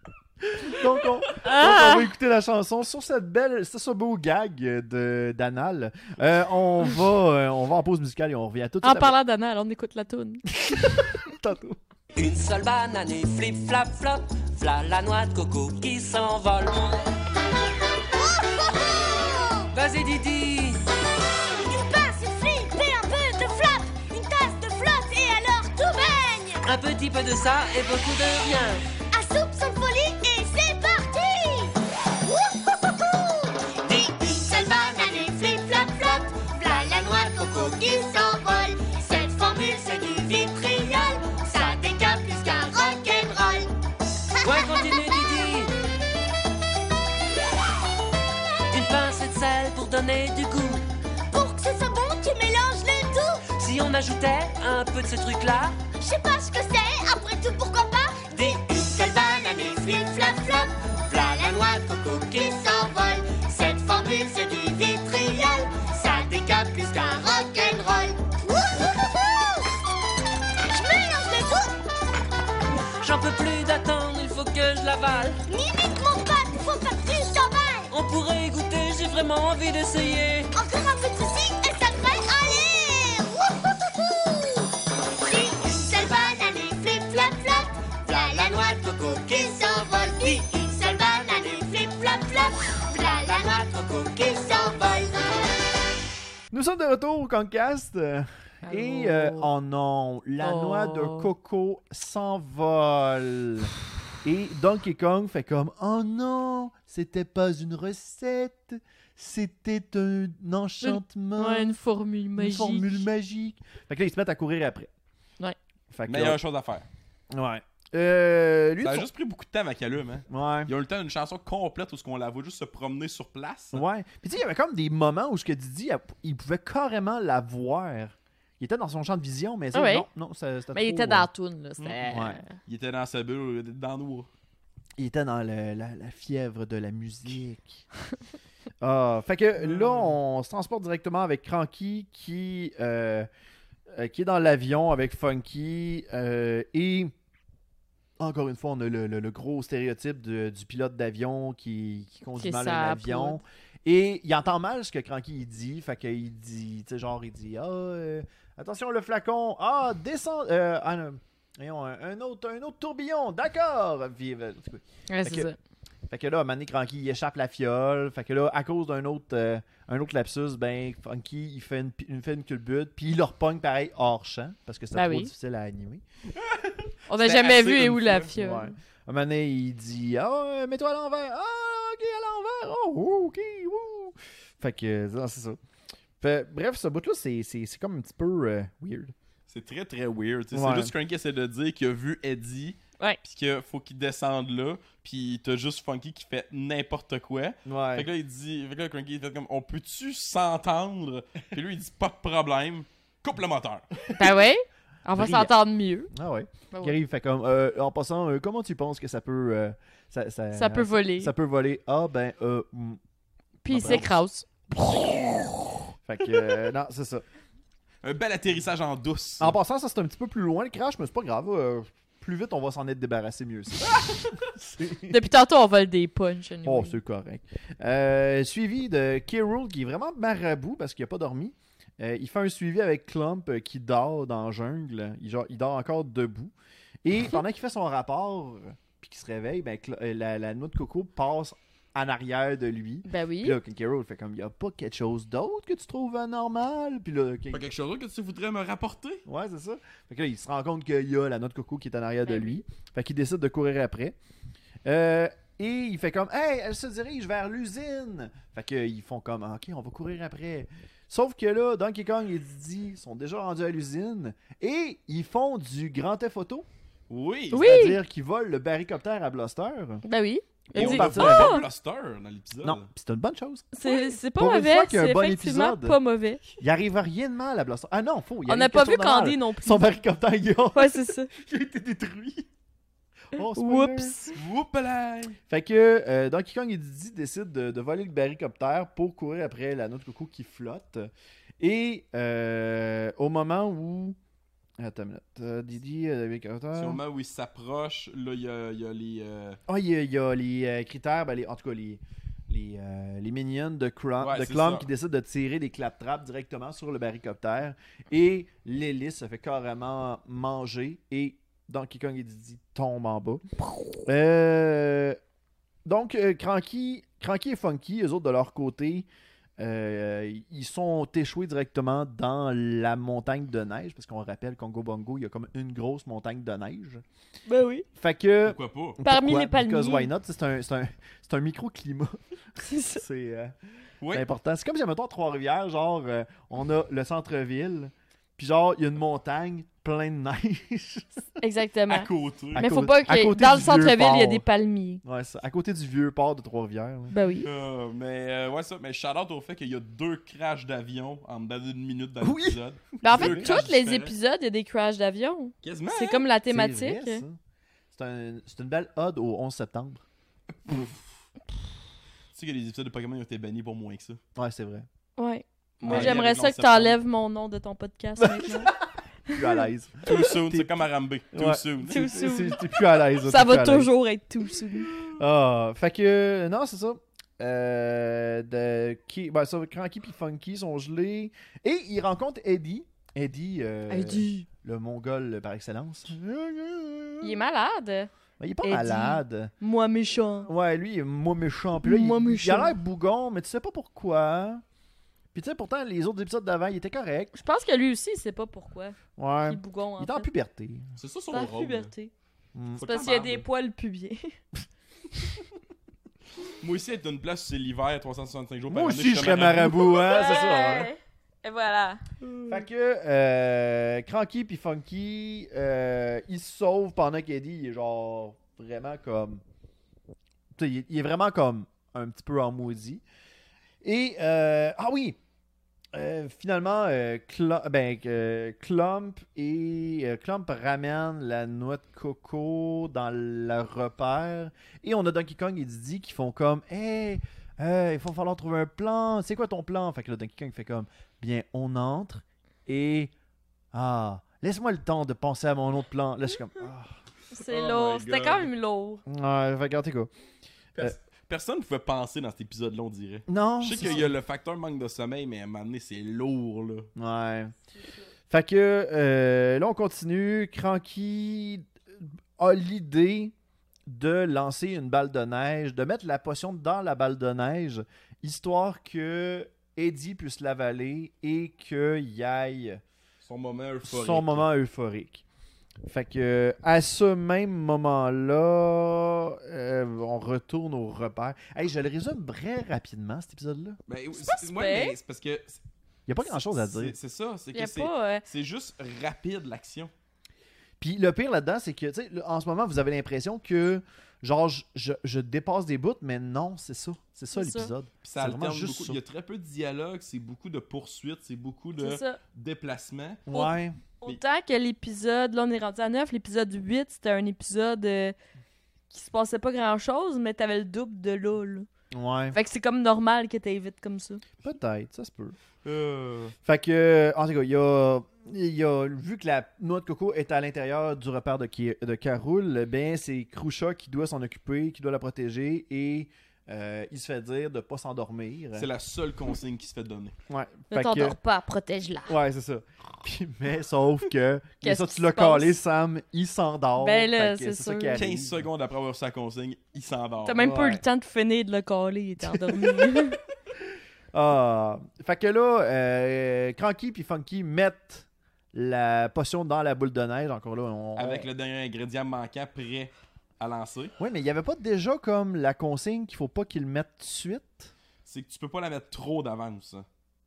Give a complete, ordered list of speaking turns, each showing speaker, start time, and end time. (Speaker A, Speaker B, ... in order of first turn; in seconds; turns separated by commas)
Speaker A: 0.5-9.1, Speaker B: 1.4-2.1, Speaker B: 8.8-11.0, Speaker A: 10.6-11.8, Speaker C: 12.2-17.0, Speaker D: 18.1-19.7, Speaker C: 19.7-20.9, Speaker D: 21.5-26.6, Speaker C: 26.6-28.9, Speaker D: 29.0-43.7, Speaker D: 44.4-45.2, Speaker C: 44.4-45.7, Speaker C: 48.7-50.9, Speaker D: 51.3-53.5, Speaker C: 53.5-55.8, Speaker D: 56.0-69.8, Speaker D: 70.7-71.7, Speaker C: 73.0-75.4, Speaker D: 75.5-77.9, Speaker C: 77.9-80.5, Speaker D: 80.5-95.3, Speaker A: 96.5-103.7, Speaker B: 98.7-99.5, Speaker B: 100.4-101.3, Speaker A: 104.2-111.8, Speaker B: 110.8-113.0, Speaker A: 112.4-114.9, Speaker A: 115.9-116.4, Speaker E: 116.1-116.9, Speaker A: 117.3-119.1, Speaker E: 118.8-123.8, Speaker A: 120.3-120.7, Speaker A: 123.7-131.3, Speaker B: 129.7-130.1, Speaker B: 130.7-132.6, Speaker E: 131.8-134.3, Speaker A: 132.1-132.4, Speaker A: 135.0-137.8, Speaker A: 138.8-143.3, Speaker E: 139.6-140.2, Speaker A: 143.9-147.1, Speaker A: 148.2-165.5, Speaker B: 152.4-153.4, Speaker B: 165.1-165.6, Speaker A: 166.1-176.0, Speaker B: 174.9-175.3, Speaker E: 176.3-178.3, Speaker B: 177.1-178.7, Speaker A: 178.3-185.6, Speaker A: 186.2-189.1, Speaker E: 189.5-203.9, Speaker A: 190.5-190.9, Speaker A: 197.7-198.1, Speaker B: 204.1-206.1, Speaker A: 205.2-205.5, Speaker A: 206.1-213.0, Speaker B: 210.5-211.3, Speaker B: 213.6-214.5, Speaker A: 213.7-214.2, Speaker A: 214.7-215.5, Speaker A: 216.0-217.2, Speaker E: 218.0-219.6, Speaker A: 219.4-225.2, Speaker B: 225.1-226.9, Speaker A: 226.7-236.5, Speaker A: 237.1-247.7, Speaker B: 243.1-243.6, Speaker E: 247.5-249.2, Speaker A: 249.3-254.2, Speaker B: 252.3-252.6, Speaker A: 254.8-266.6, Speaker E: 267.1-267.7, Speaker B: 267.5-268.0, Speaker A: 267.5-270.0, Speaker B: 270.1-271.6, Speaker A: 270.7-271.6, Speaker E: 270.8-272.9, Speaker A: 272.6-276.0, Speaker B: 273.7-276.4, Speaker A: 276.6-282.5, Speaker B: 278.5-279.9, Speaker B: 280.7-281.3, Speaker A: 283.3-284.2, Speaker B: 283.6-284.3, Speaker E: 284.3-285.4, Speaker A: 285.5-294.2, Speaker A: 294.8-297.0, Speaker E: 296.8-299.6, Speaker A: 299.7-313.4, Speaker E: 304.2-304.9, Speaker A: 314.1-315.2, Speaker A: 315.9-319.1, Speaker A: 319.6-327.0, Speaker B: 327.5-327.9, Speaker A: 327.9-332.2, Speaker E: 328.4-329.0, Speaker B: 329.0-330.1, Speaker B: 332.6-333.0, Speaker A: 332.8-333.5, Speaker E: 334.0-334.3, Speaker A: 334.1-341.2, Speaker B: 341.4-345.0, Speaker E: 341.9-342.7, Speaker A: 342.6-344.4, Speaker A: 345.0-347.1, Speaker B: 347.1-347.5, Speaker E: 347.4-354.1, Speaker A: 352.2-353.6, Speaker B: 353.0-357.2, Speaker E: 355.6-356.3, Speaker A: 356.5-357.4, Speaker A: 357.9-360.0, Speaker E: 360.6-361.0, Speaker E: 362.3-364.2, Speaker A: 364.4-364.9, Speaker B: 365.2-368.7, Speaker E: 365.8-367.0, Speaker A: 365.9-366.2, Speaker A: 368.2-370.7, Speaker B: 369.3-370.3, Speaker E: 370.1-372.0, Speaker A: 371.3-373.9, Speaker B: 371.9-374.9, Speaker A: 375.1-387.4, Speaker B: 383.9-384.5, Speaker B: 387.2-388.1, Speaker A: 388.4-389.5, Speaker B: 388.6-390.5, Speaker A: 390.5-394.6, Speaker B: 391.8-392.8, Speaker A: 395.3-397.4, Speaker B: 397.4-400.3, Speaker A: 399.2-400.9, Speaker E: 401.0-401.9, Speaker B: 401.3-402.1, Speaker A: 402.6-402.9, Speaker E: 402.8-403.4, Speaker B: 402.8-404.4, Speaker E: 406.6-410.1, Speaker A: 408.7-410.9, Speaker B: 409.8-412.6, Speaker A: 412.5-419.4, Speaker A: 420.6-423.0, Speaker A: 423.8-425.2, Speaker A: 425.9-443.1, Speaker A: 443.7-446.9, Speaker B: 447.3-449.0, Speaker E: 447.4-448.5, Speaker A: 449.1-450.1, Speaker E: 450.8-456.9, Speaker A: 453.3-454.1, Speaker A: 457.0-457.5, Speaker A: 458.3-461.7, Speaker A: 462.4-463.3, Speaker A: 463.9-472.8, Speaker E: 473.2-474.4, Speaker A: 473.9-475.2, Speaker A: 475.9-483.8, Speaker E: 483.9-485.6, Speaker B: 484.1-485.0, Speaker A: 486.1-486.9, Speaker E: 486.2-489.9, Speaker B: 487.5-488.2, Speaker A: 490.8-499.0, Speaker B: 497.3-497.7, Speaker E: 498.0-503.3, Speaker B: 501.8-502.2, Speaker A: 503.3-503.8, Speaker B: 503.3-508.1, Speaker B: 508.9-511.7, Speaker A: 511.9-512.4, Speaker B: 512.3-514.2, Speaker A: 514.4-515.4, Speaker E: 515.6-516.4, Speaker A: 516.4-528.7, Speaker E: 528.5-530.1, Speaker A: 530.3-531.2, Speaker B: 530.7-532.2, Speaker A: 532.1-538.5, Speaker B: 534.6-535.6, Speaker B: 536.8-538.0, Speaker E: 537.9-540.5, Speaker B: 540.2-543.2, Speaker A: 540.4-540.8, Speaker A: 542.4-543.0, Speaker A: 544.1-551.3, Speaker E: 551.0-553.9, Speaker A: 554.0-557.7, Speaker E: 558.0-559.9